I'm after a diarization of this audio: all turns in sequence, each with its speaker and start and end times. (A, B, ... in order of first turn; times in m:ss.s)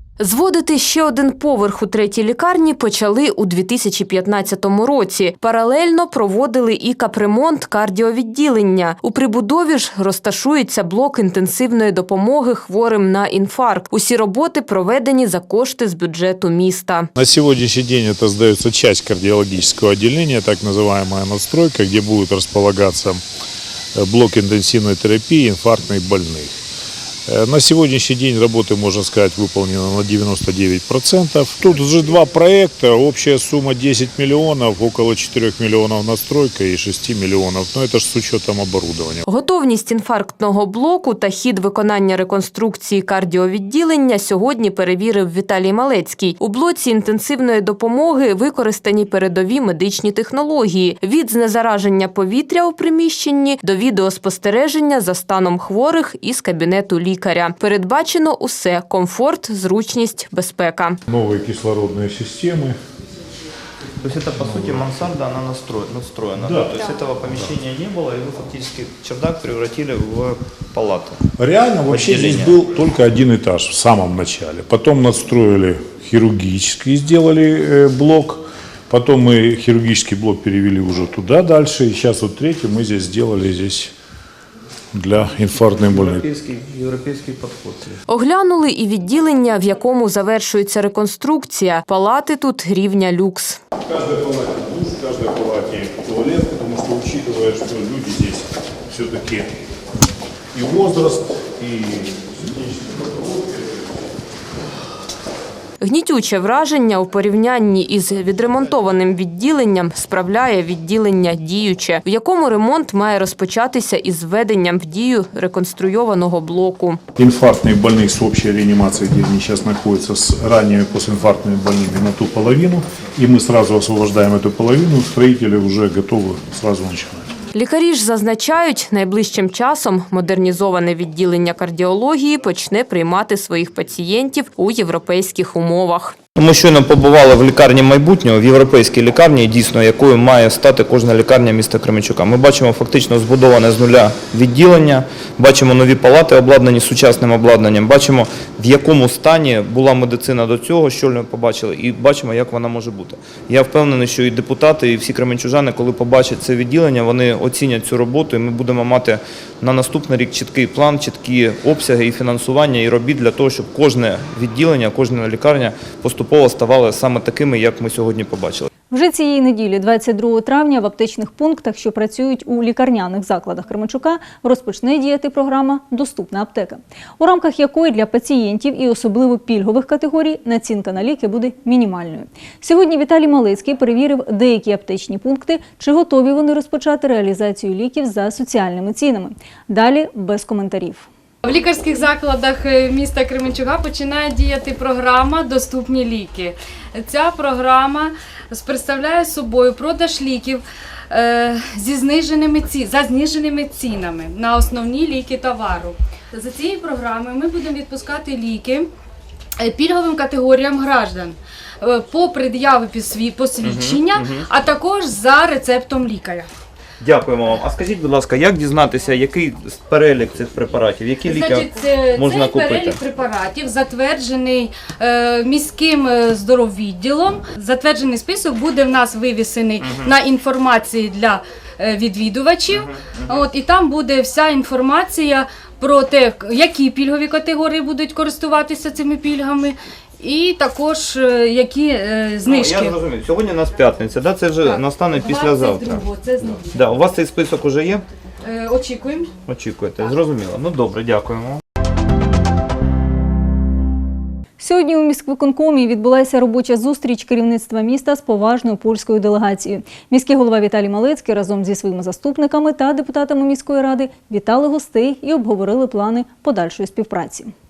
0:00.2-0:17.1 A
0:17.2-0:23.2 B
0:24.0-0:26.6 B
0:27.3-0:39.2 B
0:39.2-1:01.0 A
1:01.1-1:02.8 B
1:04.0-1:11.2 C
1:04.4-1:04.8 B
1:06.4-1:06.7 B
1:11.4-1:23.9 B
1:11.9-1:12.5 C
1:24.9-1:26.3 B
1:25.9-1:28.0 C
1:28.1-1:33.6 A
1:33.9-1:39.6 B
1:40.5-1:43.6 B
1:45.8-1:57.0 A
1:57.2-2:07.3 B
2:07.5-2:16.1 A
2:16.4-2:48.7 C
2:48.9-3:11.1 D
3:11.4-3:28.9 E
3:29.6-3:36.5 E
3:33.6-3:34.4 C
3:37.0-3:43.0 C
3:41.2-4:03.0 E
3:49.8-3:50.1 C
3:52.7-3:53.4 C
4:02.4-4:06.0 C
4:04.6-4:06.7 E
4:06.7-4:08.0 C
4:08.4-4:09.3 E
4:09.5-4:11.6 C
4:14.6-4:27.5 D